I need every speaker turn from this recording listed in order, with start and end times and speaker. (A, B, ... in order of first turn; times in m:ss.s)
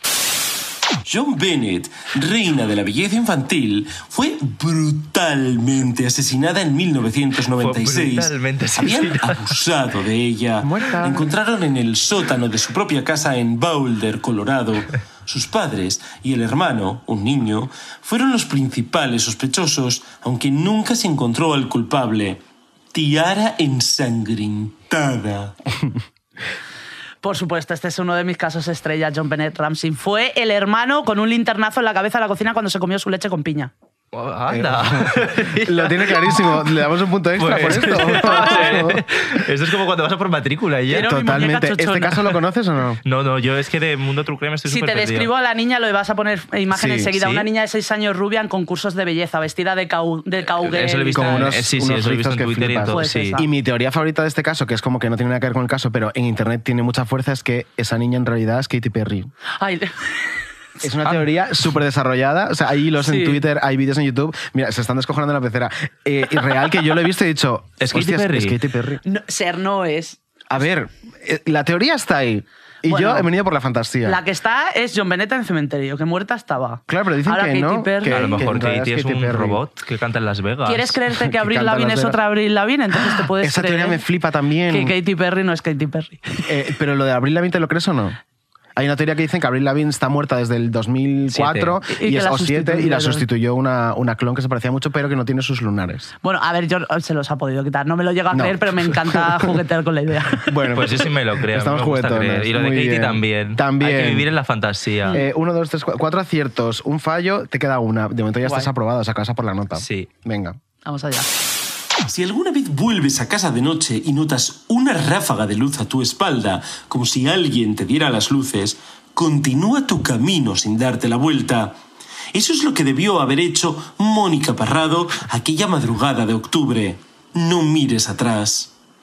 0:01.0-0:22.4 A
0:07.6-0:09.6 B
0:10.6-0:11.3 C
0:22.9-0:25.5 A
0:27.2-0:33.7 D
0:34.1-0:36.7 B
0:34.5-0:39.0 C
0:37.4-0:41.3 B
0:38.2-0:38.8 D
0:40.9-0:42.3 D
0:40.9-0:43.0 C
0:43.0-0:45.3 B
0:44.7-0:51.5 D
0:46.7-0:47.1 C
0:47.2-0:47.5 B
0:50.5-0:53.4 B
0:51.1-0:59.3 C
0:52.9-0:53.4 D
0:59.6-1:00.1 D
1:00.8-1:09.0 C
1:01.0-1:01.3 B
1:03.0-1:03.4 D
1:07.8-1:08.6 B
1:09.0-1:10.2 D
1:10.5-1:14.2 C
1:12.8-1:13.3 D
1:14.0-1:18.4 D
1:16.9-1:19.6 C
1:18.0-1:20.9 B
1:20.6-1:24.0 D
1:21.1-1:22.2 C
1:23.0-1:24.9 C
1:24.7-1:26.5 D
1:26.5-1:28.2 C
1:28.8-1:36.1 C
1:31.3-1:31.8 B
1:31.9-1:33.2 D
1:36.2-1:40.8 D
1:38.3-1:39.4 C
1:40.4-1:44.3 C
1:40.7-1:45.2 B
1:45.1-1:50.6 C
1:48.4-1:48.7 D
1:49.8-1:50.1 B
1:50.8-1:51.3 D
1:52.0-2:01.8 A
2:02.3-2:08.7 A